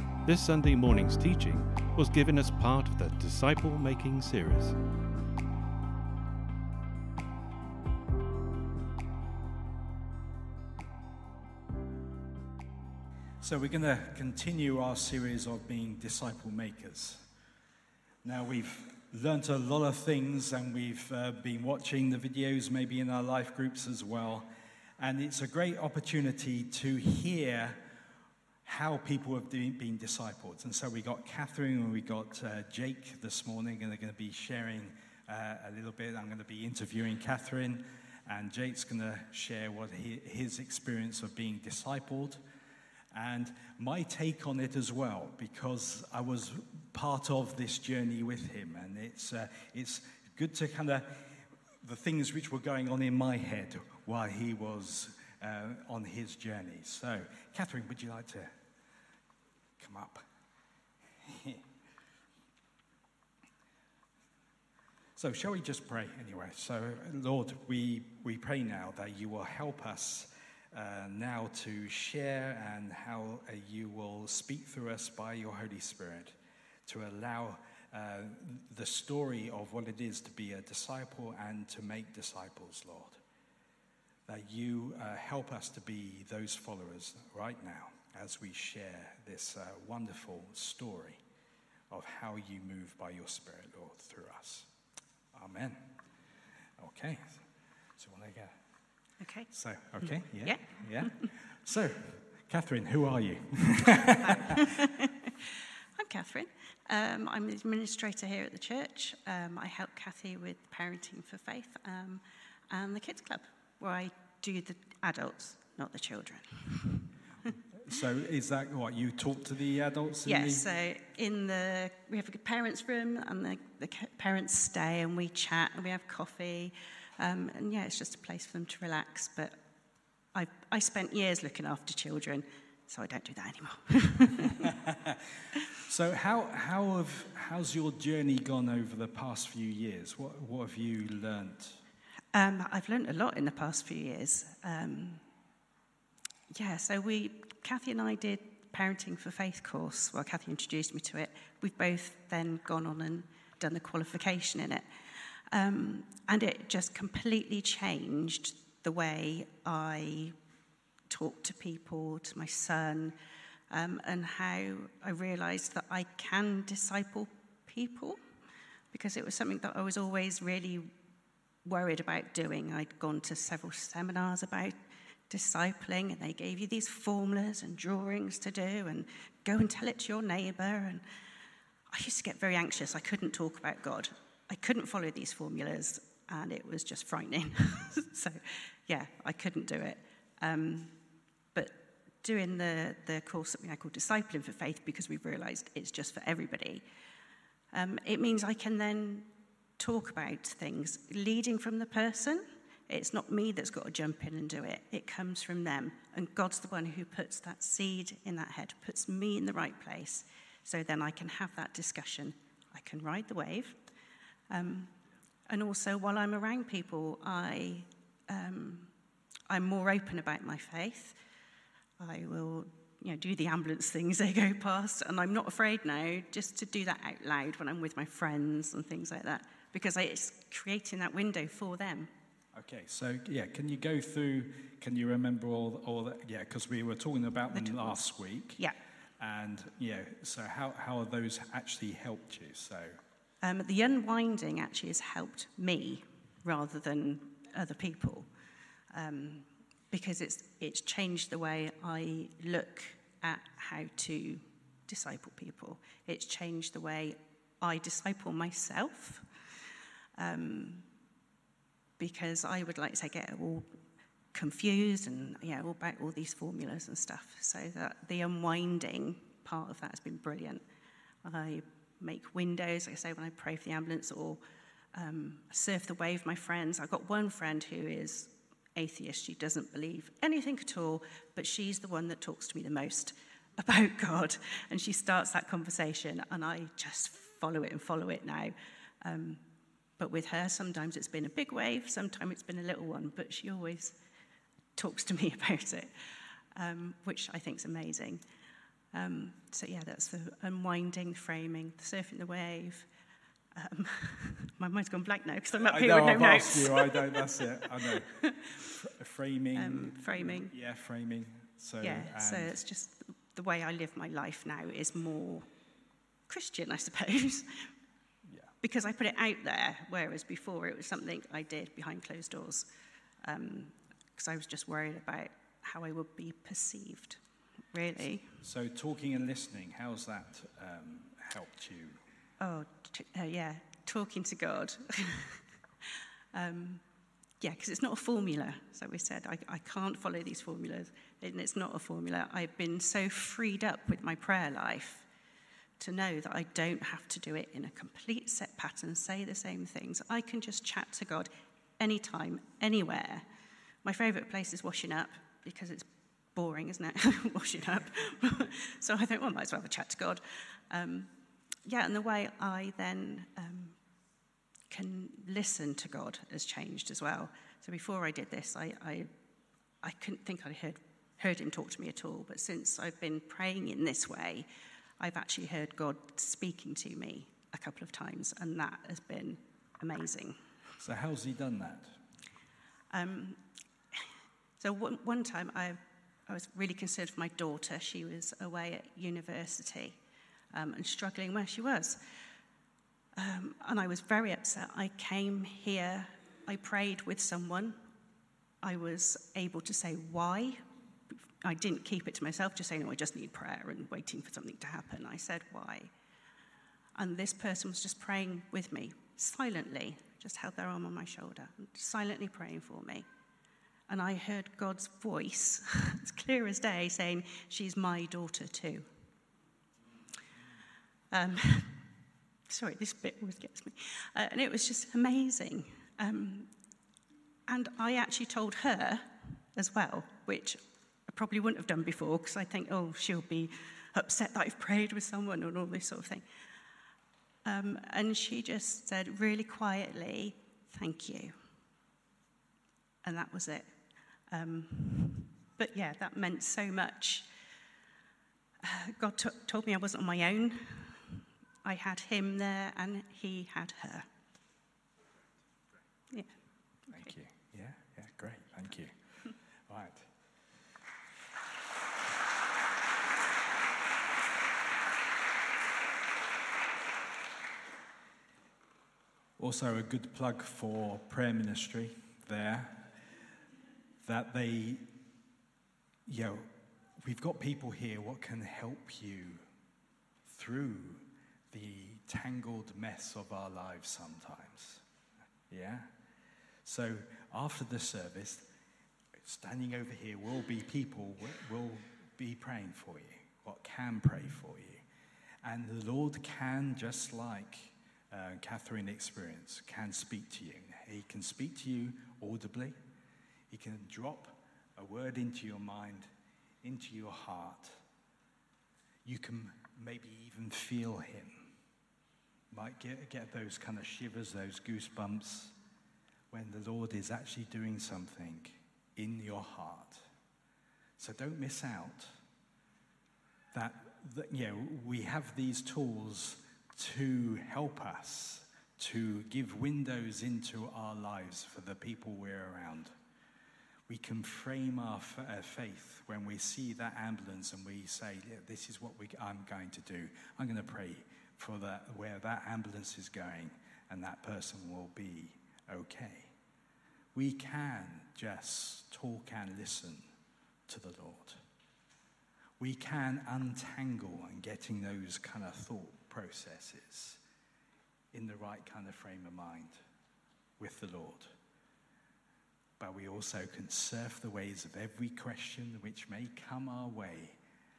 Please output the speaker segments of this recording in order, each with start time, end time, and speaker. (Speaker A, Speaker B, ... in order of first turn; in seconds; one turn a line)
Speaker A: 0.2-4.8
Speaker B: 13.4-17.2
Speaker B: 18.2-24.5
Speaker B: 25.0-27.8
Speaker B: 28.6-42.4
Speaker B: 43.1-51.2
Speaker B: 51.8-58.5
Speaker B: 59.8-60.2
Speaker B: 61.2-61.6
Speaker B: 65.2-83.2
Speaker B: 84.3-91.2
Speaker B: 91.9-94.7
Speaker B: 95.3-95.8
Speaker B: 96.8-98.5
Speaker C: 99.2-99.5
Speaker B: 99.5-104.4
Speaker C: 100.4-101.3
Speaker C: 104.2-117.1
Speaker B: 117.8-120.7
Speaker C: 120.2-129.6
Speaker C: 130.3-134.7
Speaker B: 134.8-135.2
Speaker B: 135.8-141.8
Speaker C: 142.3-145.2
Speaker C: 146.5-154.8
Speaker C: 155.5-160.3
Speaker C: 161.1-163.2
Speaker C: 163.7-168.2
Speaker C: 168.9-170.9
Speaker C: 171.6-174.7
Speaker C: 175.3-181.0
Speaker C: 181.9-190.9
Speaker C: 191.5-196.8
Speaker C: 197.7-213.8
Speaker C: 214.5-214.9
Speaker C: 215.5-218.9
Speaker C: 219.5-221.2
Speaker C: 222.0-232.1
Speaker B: 232.5-238.6
Speaker C: 237.5-238.0
Speaker B: 239.2-242.9
Speaker C: 243.4-248.3
Speaker C: 248.9-259.2
Speaker C: 260.2-260.9
Speaker C: 262.0-263.6
Speaker C: 264.3-270.6
Speaker C: 271.2-274.4
Speaker C: 274.9-289.4
Speaker C: 290.0-294.0
Speaker C: 294.8-295.9
Speaker C: 296.6-298.2
Speaker C: 298.9-302.9
Speaker C: 303.6-308.6
Speaker B: 305.6-312.6
Speaker C: 309.5-310.5
Speaker C: 311.8-315.4
Speaker C: 316.3-317.5
Speaker C: 318.6-322.6
Speaker C: 323.2-327.2
Speaker C: 327.7-328.2
Speaker B: 328.0-332.0
Speaker C: 332.4-335.4
Speaker C: 336.3-336.8
Speaker C: 337.4-345.1
Speaker C: 345.8-353.2
Speaker C: 353.8-361.1
Speaker C: 361.6-363.8
Speaker C: 364.7-369.1
Speaker C: 369.8-374.5
Speaker C: 375.0-380.4
Speaker B: 380.8-381.9
Speaker C: 382.9-383.4
Speaker C: 384.6-390.0
Speaker C: 390.5-392.0
Speaker C: 393.2-397.8
Speaker C: 398.6-400.6
Speaker C: 401.4-405.9
Speaker C: 407.0-413.0
Speaker C: 413.9-418.9
Speaker C: 421.1-421.8
Speaker C: 422.5-426.5
Speaker C: 427.5-436.2
Speaker C: 437.4-441.3
Speaker C: 443.0-443.7
Speaker C: 444.3-447.3
Speaker C: 448.6-454.1
Speaker B: 456.9-458.9
Speaker B: 459.7-460.1
Speaker B: 469.4-472.8
Speaker B: 474.0-474.8
Speaker B: 476.1-476.5
Speaker B: 477.0-479.4
Speaker B: 480.2-484.8
Speaker B: 485.5-485.9
Speaker B: 486.6-488.5
Speaker B: 489.2-494.8
Speaker B: 495.4-502.8
Speaker B: 503.5-506.1
Speaker B: 506.6-507.7
Speaker B: 509.1-511.4
Speaker B: 512.5-515.5
Speaker B: 516.3-520.0
Speaker B: 521.0-522.1
Speaker B: 523.5-532.9
Speaker B: 533.9-546.3
Speaker B: 547.1-550.0
Speaker B: 550.7-551.4
Speaker B: 552.6-557.2
Speaker B: 558.1-559.8
Speaker B: 560.6-561.3
Speaker B: 562.8-567.4